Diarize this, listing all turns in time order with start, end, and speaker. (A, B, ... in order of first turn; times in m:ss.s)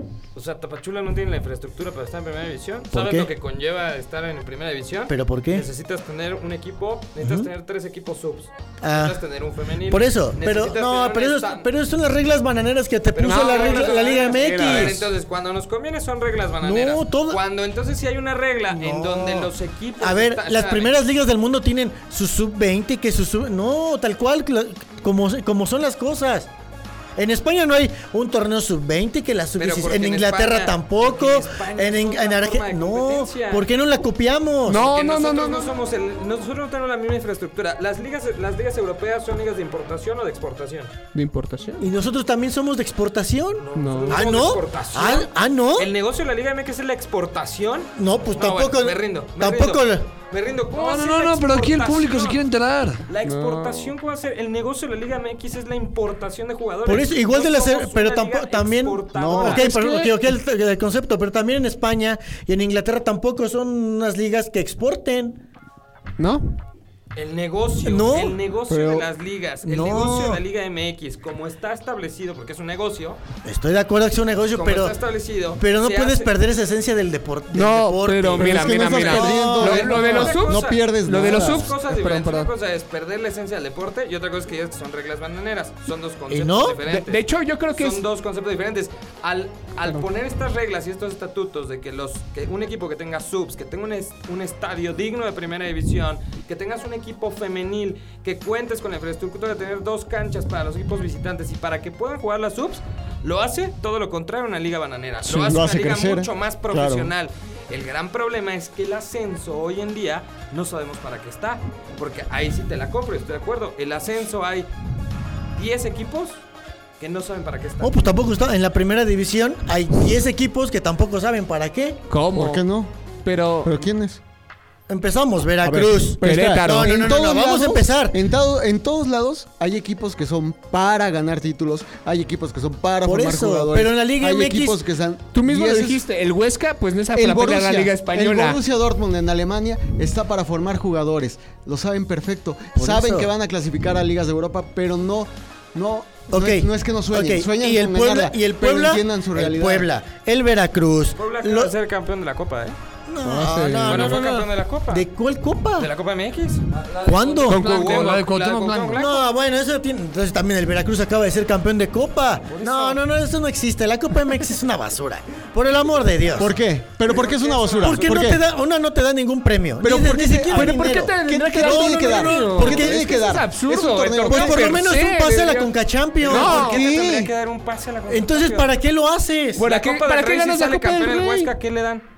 0:00.4-0:11.7 A
0:02.9-0:03.3 B
0:05.1-0:05.7 B
0:07.2-0:07.5 B
0:08.8-0:09.2 B
0:09.9-0:15.0 B
0:13.1-0:20.9 A
0:13.3-0:15.1 C
0:16.6-0:17.4 B
0:18.7-0:26.5 B
0:27.2-0:34.9 B
0:29.6-0:33.7 A
0:34.7-0:35.7 C
0:34.9-0:40.9 A
0:41.1-0:41.9 C
0:41.8-0:45.9 B
0:43.6-0:52.4 A
0:43.8-0:44.2 C
0:48.0-0:50.1 B
0:50.7-0:53.0 D
0:53.1-0:59.7 A
0:53.2-0:53.9 C
0:56.9-1:05.4 B
0:59.1-0:59.7 E
0:59.6-1:00.2 C
1:06.2-1:06.6 C
1:07.2-1:13.2 A
1:07.8-1:08.4 B
1:08.7-1:09.1 E
1:09.6-1:10.4 B
1:13.4-1:15.0 B
1:14.5-1:16.3 A
1:15.6-1:20.2 B
1:17.5-1:22.5 C
1:18.4-1:21.7 E
1:19.6-1:27.2 A
1:26.3-1:26.8 B
1:26.9-1:28.0 C
1:27.7-1:54.7 A
1:45.2-1:47.1 E
1:55.6-1:56.4 A
1:57.0-1:58.1 A
1:57.8-2:02.0 B
2:02.1-2:02.6 C
2:02.3-2:02.9 E
2:03.2-2:03.8 C
2:03.6-2:04.2 E
2:04.9-2:08.2 B
2:05.6-2:16.0 E
2:06.2-2:07.0 C
2:13.0-2:14.8 B
2:15.3-2:18.6 C
2:17.1-2:29.9 E
2:22.8-2:23.3 B
2:26.3-2:31.7 B
2:31.2-2:32.8 A
2:33.1-2:35.9 B
2:33.2-2:34.1 C
2:33.9-2:35.1 A
2:35.8-2:39.2 A
2:36.8-2:39.1 D
2:37.0-2:38.0 B
2:37.6-2:38.1 C
2:39.0-2:46.6 B
2:42.5-2:43.0 A
2:46.4-2:48.4 E
2:47.1-2:48.3 A
2:47.8-2:53.1 B
2:49.8-2:54.9 E
2:50.5-2:55.7 C
2:54.2-2:56.8 B
2:56.2-2:58.7 A
2:56.3-2:56.8 C
2:56.3-2:57.3 E
2:58.1-2:59.6 B
2:59.6-3:01.5 C
2:59.6-3:02.0 A